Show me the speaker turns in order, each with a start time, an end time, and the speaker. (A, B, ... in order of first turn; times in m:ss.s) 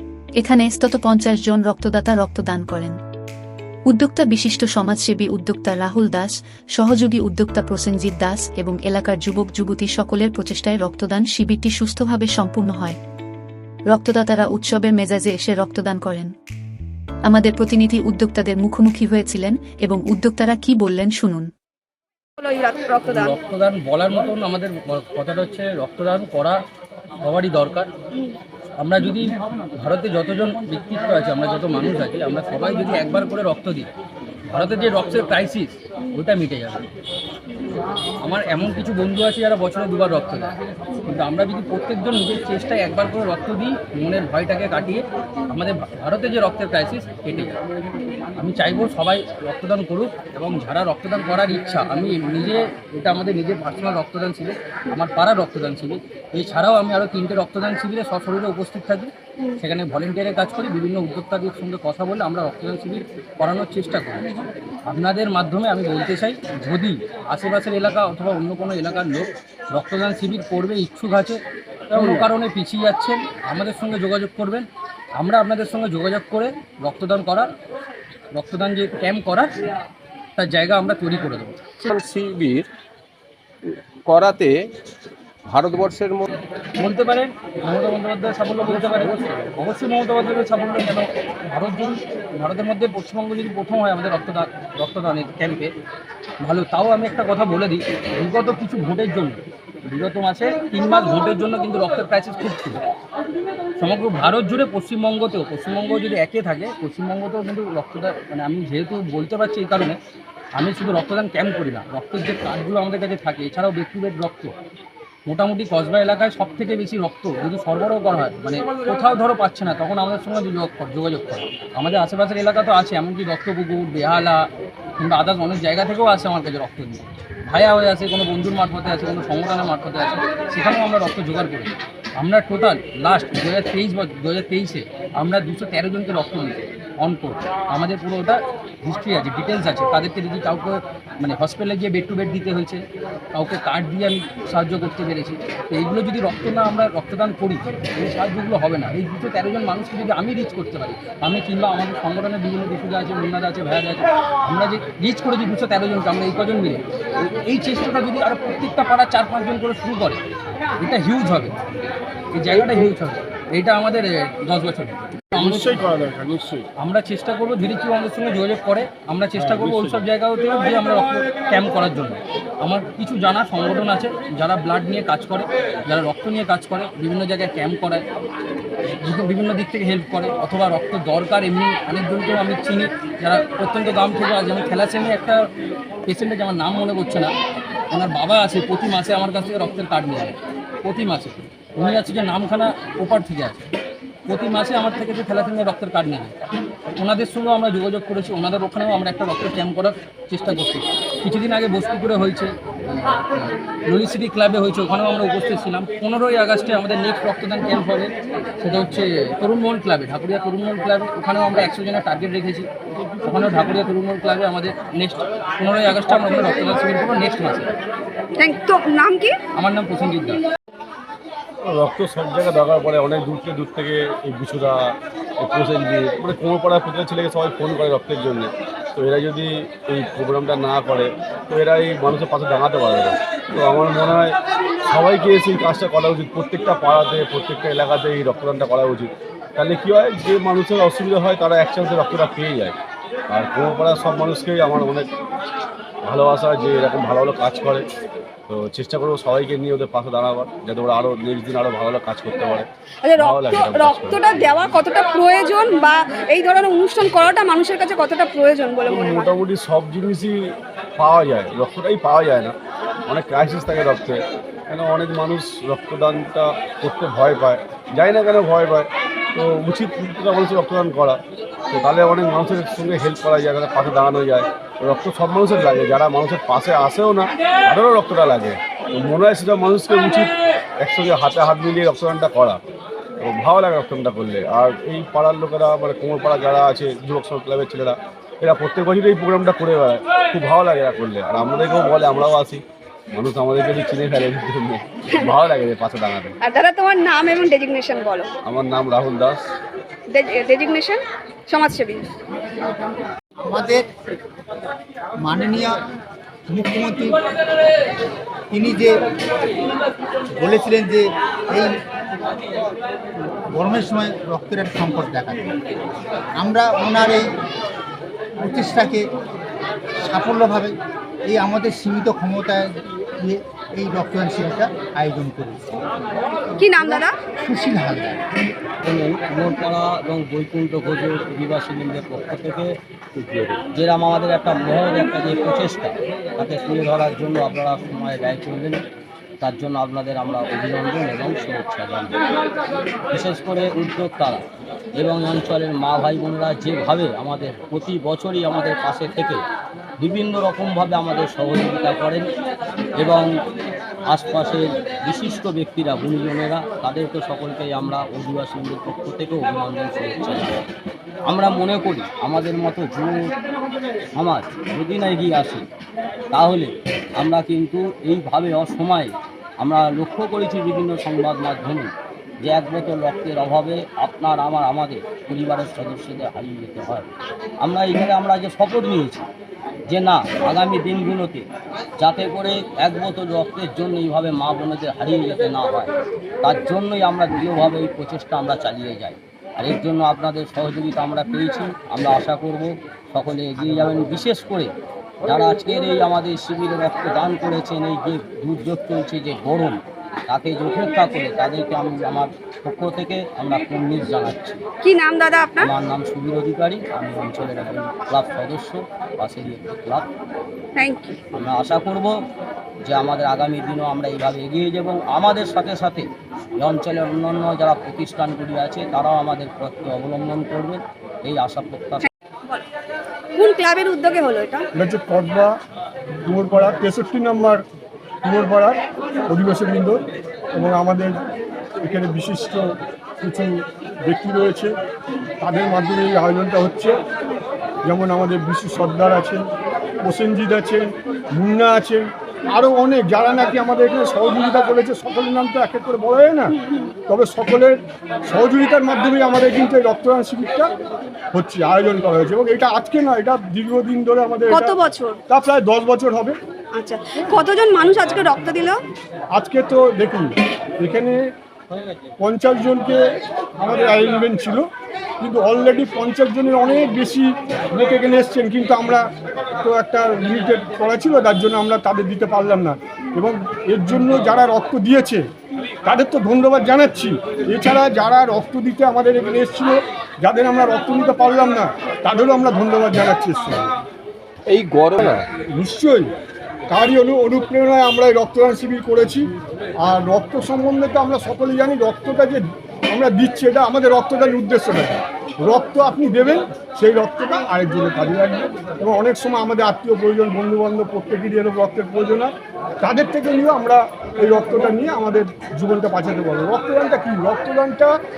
0:00.4-0:03.0 A
0:03.9-0:13.0 A
0:13.9-0:16.3 A
0:17.2-0:21.5 A
0:22.4-0:23.3 B
0:23.0-0:26.6 C
0:27.2-0:27.9 C
0:28.8-0:33.9 C
0:34.5-0:36.9 C
0:38.2-0:47.6 C
0:48.4-1:04.3 C
1:04.9-1:11.4 C
1:11.9-1:17.5 C
1:18.4-1:19.5 C
1:20.4-1:21.7 C
1:21.8-1:22.6 D
1:24.1-1:24.6 D
1:25.5-1:26.1 D
1:26.8-1:35.7 C
1:36.4-1:42.8 C
1:43.8-1:50.0 C
1:50.6-1:54.5 C
1:55.3-2:04.5 C
2:05.0-2:40.2 C
2:40.8-2:41.6 C
2:42.3-2:45.8 C
2:45.4-2:46.6 E
2:46.8-2:58.0 C
2:49.4-2:49.7 E
2:59.0-3:05.4 C
3:06.1-3:07.3 C
3:07.9-3:13.6 C
3:14.3-3:16.4 C
3:17.0-3:32.7 C
3:33.2-3:37.7 C
3:38.4-3:39.4 B
3:39.6-3:40.4 C
3:41.6-3:54.4 F
3:54.9-4:02.8 F
4:03.3-4:05.1 F
4:06.0-4:07.9 F
4:08.5-4:14.8 F
4:13.0-4:19.3 B
4:18.9-4:22.6 F
4:23.1-4:31.2 F
4:31.7-4:42.6 F
4:43.2-4:52.6 F
4:53.1-4:56.4 F
4:56.4-4:58.3 B
4:58.4-4:59.4 F
5:00.1-5:02.0 B
5:03.4-5:03.8 G
5:05.2-5:05.7 G
5:06.5-5:07.2 G
5:08.5-5:08.9 G
5:10.4-5:11.7 G
5:13.6-5:15.5 G
5:16.4-5:17.2 G
5:18.4-5:19.0 G
5:20.0-5:20.7 G
5:21.3-5:25.6 G
5:26.6-5:27.2 B
5:27.0-5:28.3 G
5:28.8-5:38.8 H
5:39.4-5:42.2 H
5:43.1-5:44.4 H
5:45.0-5:49.4 H
5:50.0-5:52.2 H
5:53.0-5:53.3 H
5:54.1-6:00.6 H
6:01.3-6:03.2 H
6:04.2-6:05.6 H
6:06.3-6:09.1 H
6:09.6-6:11.9 H
6:12.4-6:17.1 H
6:17.6-6:19.3 H
6:19.9-6:21.5 H
6:22.0-6:25.9 H
6:26.4-6:34.7 H
6:35.2-6:44.6 H
6:44.8-6:45.7 B
6:45.6-6:50.1 H
6:50.8-6:51.2 B
6:51.3-6:52.2 H
6:52.8-7:02.0 H
7:02.0-7:02.7 B
7:03.4-7:04.7 B
7:04.7-7:05.6 E
7:06.2-7:07.6 E
7:08.2-7:10.0 E
7:10.5-7:11.2 E
7:11.8-7:12.7 E
7:13.2-7:14.7 E
7:15.4-7:17.0 E
7:17.8-7:19.5 E
7:20.0-7:30.7 E
7:26.5-7:27.0 B
7:31.3-7:36.4 E
7:34.5-7:35.2 B
7:36.8-7:38.8 B
7:39.3-7:41.3 E
7:42.2-7:44.7 E
7:45.2-7:55.3 E
7:55.8-8:03.7 E
8:04.5-8:05.2 D
8:05.0-8:06.1 E
8:06.7-8:27.9 E